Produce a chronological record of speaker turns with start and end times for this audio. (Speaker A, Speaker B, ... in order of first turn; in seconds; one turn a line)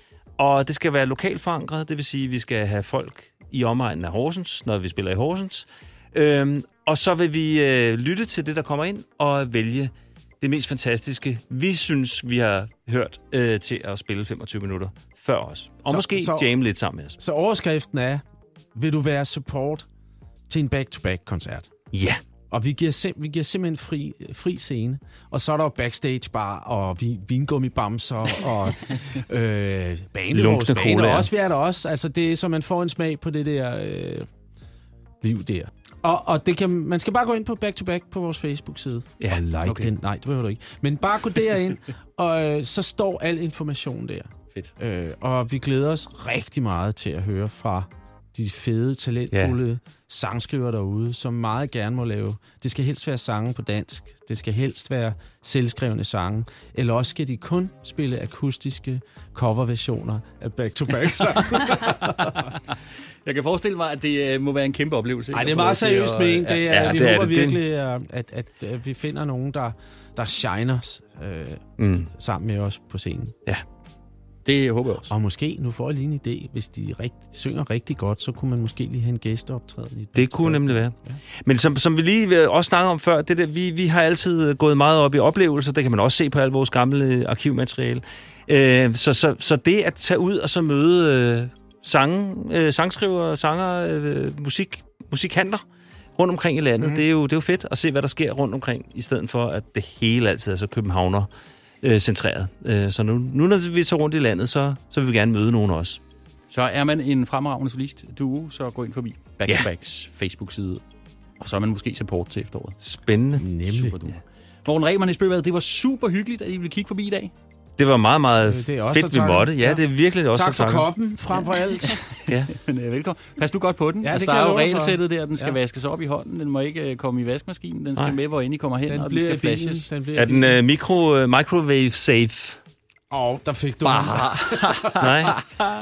Speaker A: 0.4-17.2
Speaker B: 15.9-16.6
Speaker B: 17.2-18.2
Speaker B: 18.8-19.9
Speaker B: 20.5-21.7
Speaker A: 21.9-22.2
Speaker B: 22.5-34.2
Speaker A: 30.3-31.3
Speaker B: 35.2-44.3
Speaker C: 39.6-39.9
Speaker B: 44.8-62.5
Speaker C: 63.2-66.8
Speaker B: 65.3-73.3
Speaker A: 66.7-67.6
Speaker A: 71.8-72.1
Speaker C: 74.4-75.1
Speaker B: 75.1-81.2
Speaker A: 80.1-95.6
Speaker A: 96.2-101.3
Speaker A: 101.8-106.0
Speaker C: 106.5-110.8
Speaker C: 111.4-112.8
Speaker A: 112.8-113.6
Speaker B: 113.4-114.0
Speaker C: 113.7-117.3
Speaker A: 117.8-120.9
Speaker B: 118.4-122.0
Speaker C: 122.5-129.9
Speaker B: 124.0-125.6
Speaker B: 128.9-130.6
Speaker A: 130.1-132.6
Speaker B: 133.1-135.3
Speaker C: 133.8-135.0
Speaker A: 135.0-135.3